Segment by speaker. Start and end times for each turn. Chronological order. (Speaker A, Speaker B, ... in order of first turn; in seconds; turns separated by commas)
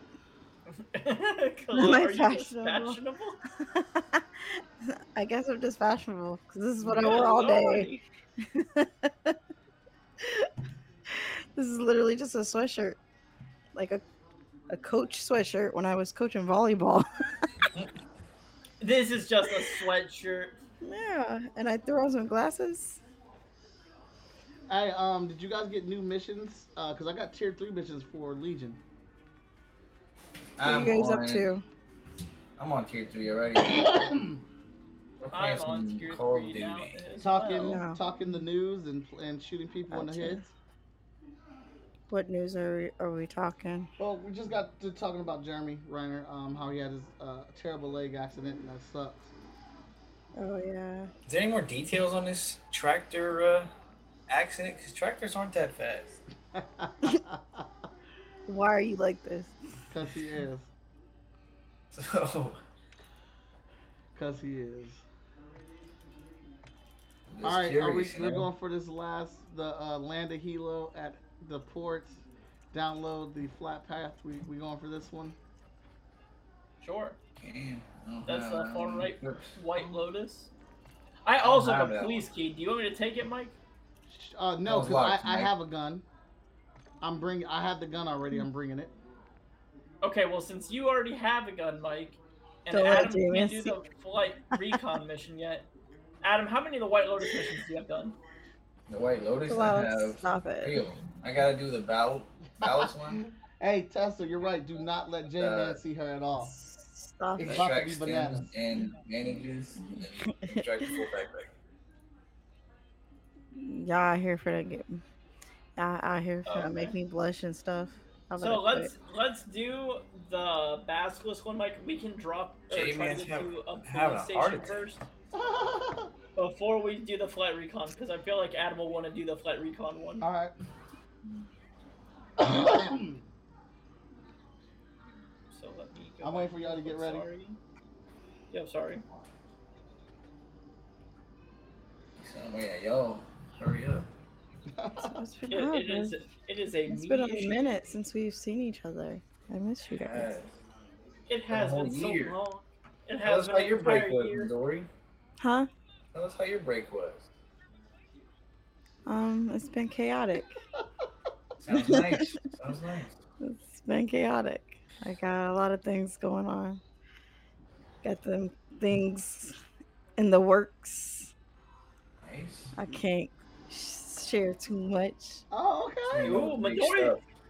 Speaker A: 0.7-3.4, Speaker B: 1.7-3.0, Speaker B: 3.7-4.2, Speaker B: 5.1-7.9, Speaker A: 6.8-8.0, Speaker B: 8.5-9.4, Speaker B: 10.2-10.5, Speaker B: 11.1-13.0, Speaker B: 13.7-14.0, Speaker B: 14.7-17.1, Speaker A: 18.8-20.6, Speaker B: 20.8-23.0, Speaker C: 24.7-28.8, Speaker D: 30.6-31.5, Speaker B: 30.6-31.6, Speaker D: 32.6-34.1, Speaker C: 33.9-34.4, Speaker D: 35.2-37.0, Speaker A: 35.3-37.8, Speaker C: 37.2-40.5, Speaker B: 37.6-38.0, Speaker B: 39.9-40.5, Speaker B: 42.1-43.9, Speaker C: 44.0-49.3, Speaker B: 50.4-51.1, Speaker D: 51.3-53.7, Speaker D: 54.3-56.2, Speaker C: 56.5-57.7, Speaker B: 58.5-59.5, Speaker C: 59.9-60.7, Speaker D: 61.9-62.6, Speaker C: 64.1-65.0, Speaker D: 67.3-68.5, Speaker C: 67.4-75.4, Speaker A: 76.8-77.2, Speaker D: 77.4-79.5, Speaker A: 78.3-80.5, Speaker A: 81.2-83.6, Speaker D: 81.4-82.3, Speaker C: 84.1-86.0, Speaker D: 84.7-85.5, Speaker C: 87.0-88.9, Speaker A: 90.0-95.7, Speaker B: 92.7-93.8, Speaker A: 96.2-98.2, Speaker D: 98.9-103.2, Speaker B: 99.5-100.8, Speaker C: 103.6-106.5, Speaker D: 105.4-105.8, Speaker B: 106.5-107.7, Speaker C: 107.4-108.5, Speaker D: 107.4-111.5, Speaker B: 109.8-110.9, Speaker B: 113.5-115.0, Speaker B: 115.8-118.9, Speaker A: 116.5-117.0, Speaker A: 118.4-125.0, Speaker D: 122.7-124.8, Speaker C: 125.3-126.1, Speaker A: 126.4-130.3, Speaker C: 130.2-130.5, Speaker C: 132.4-133.2, Speaker A: 135.5-137.6, Speaker C: 136.2-137.3, Speaker A: 138.5-139.0, Speaker D: 142.2-144.1, Speaker C: 144.7-145.2, Speaker B: 145.0-146.2, Speaker A: 145.5-147.7, Speaker B: 146.9-150.3, Speaker D: 149.9-150.5, Speaker A: 151.3-154.5, Speaker D: 151.5-152.3, Speaker D: 153.2-154.9, Speaker B: 155.4-155.7, Speaker D: 156.1-157.3, Speaker B: 159.1-160.6, Speaker D: 161.6-163.1, Speaker B: 161.7-162.4, Speaker B: 163.4-166.8, Speaker B: 168.0-169.6, Speaker B: 170.2-171.3, Speaker D: 172.2-172.7, Speaker B: 172.8-175.4, Speaker C: 175.5-176.4, Speaker D: 176.1-177.2, Speaker A: 176.2-177.2